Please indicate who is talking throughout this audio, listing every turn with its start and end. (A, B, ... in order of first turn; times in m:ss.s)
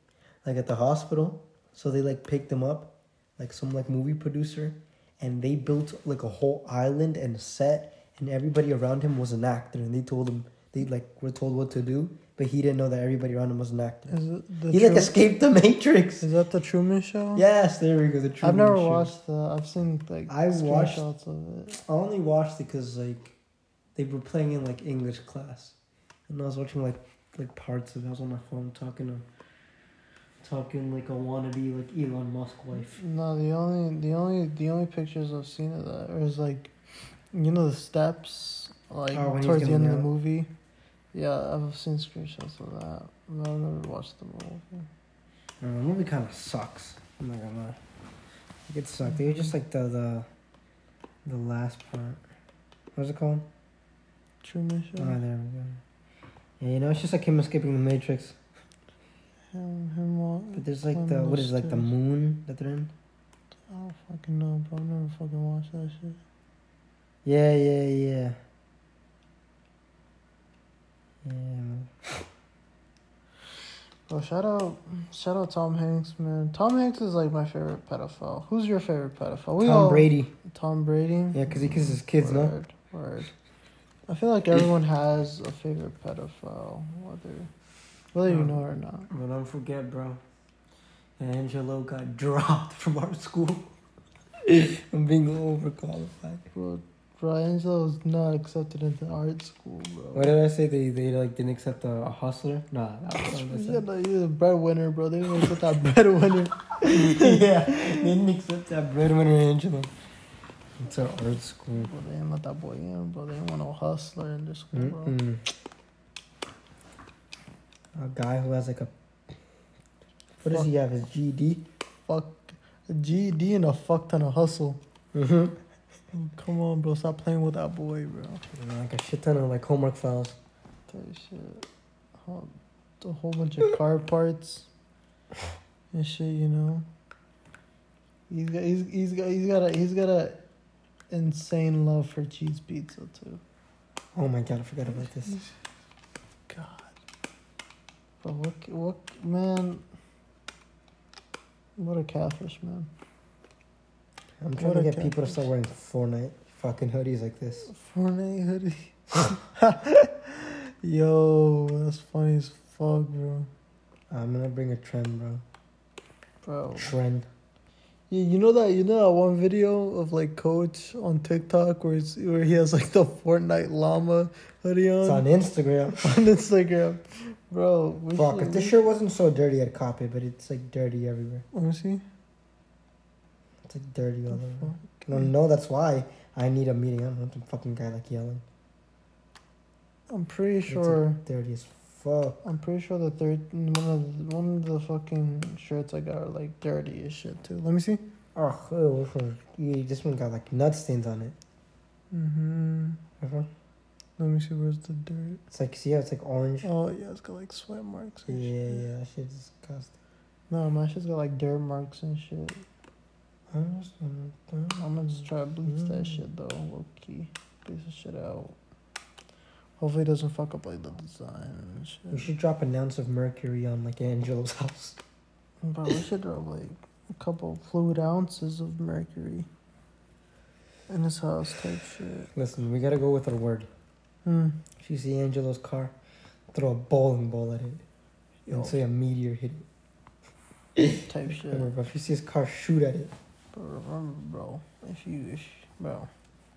0:00.4-0:14.1 A
0:14.1-0:15.1 B
0:14.7-0:16.2 A
0:16.2-0:17.4 B
0:17.3-0:19.1 A
0:18.4-0:21.8 B
0:20.3-0:21.0 A
0:21.8-0:23.4 A
0:24.0-0:25.7 A
0:26.3-0:29.2 A
0:30.4-0:33.0 A
0:32.8-0:36.7 B
0:37.3-0:40.5 B
0:39.1-0:40.1 A
0:41.1-0:44.9 B
0:45.6-0:47.8 A
0:48.7-0:50.2 A
0:49.1-0:49.5 B
0:51.2-0:52.2 A
0:53.0-0:53.5 A
0:54.4-0:55.2 B
0:55.0-0:55.8 A
0:56.6-0:58.4 A
0:59.5-1:01.9 B
1:00.5-1:02.9 A
1:03.7-1:06.2 B
1:07.2-1:08.4 A
1:11.2-1:12.2 A
1:14.1-1:23.3 B
1:19.6-1:20.3 A
1:21.3-1:22.5 A
1:24.1-1:27.5 B
1:28.1-1:29.1 B
1:28.3-1:30.2 A
1:31.2-1:33.7 A
1:34.4-1:36.4 A
1:36.5-1:40.3 B
1:40.1-1:43.8 A
1:43.2-1:47.4 B
1:46.8-1:49.9 A
1:50.8-1:51.9 A
1:51.7-1:55.2 B
1:54.7-1:55.4 A
1:58.0-1:58.9 A
2:00.4-2:01.6 A
2:02.1-2:04.8 B
2:05.1-2:05.6 A
2:06.1-2:08.4 B
2:08.5-2:10.4 A
2:10.9-2:11.6 B
2:12.2-2:14.7 B
2:15.9-2:16.8 B
2:18.3-2:20.4 B
2:21.1-2:23.4 B
2:24.1-2:25.4 A
2:26.5-2:26.9 B
2:28.2-2:29.8 B
2:31.8-2:32.9 B
2:34.4-2:37.7 A
2:34.6-2:35.4 B
2:37.7-2:43.5 B
2:44.1-2:45.4 A
2:46.4-2:46.9 B
2:46.8-2:47.3 A
2:48.1-2:55.3 B
2:55.0-2:56.2 A
2:56.0-2:58.8 B
2:58.1-3:01.4 A
3:01.5-3:02.0 B
3:03.6-3:08.4 A
3:04.3-3:05.3 B
3:10.1-3:11.2 B
3:10.7-3:12.4 A
3:12.4-3:18.0 B
3:18.3-3:21.4 A
3:22.1-3:23.0 B
3:23.2-3:23.5 A
3:24.2-3:25.4 B
3:25.5-3:26.7 A
3:26.6-3:28.8 B
3:28.3-3:29.9 A
3:30.5-3:32.6 B
3:33.5-3:34.9 A
3:34.8-3:38.6 B
3:35.7-3:36.2 A
3:39.8-3:42.3 B
3:42.1-3:45.0 A
3:45.6-3:49.5 B
3:50.9-3:52.3 B
3:52.3-3:53.7 A
3:54.2-3:54.6 B
3:54.8-3:55.9 A
3:56.5-3:57.8 A
3:58.5-3:58.8 B
3:58.5-3:59.6 A
4:00.8-4:03.1 A
4:01.0-4:01.7 B
4:03.5-4:06.1 B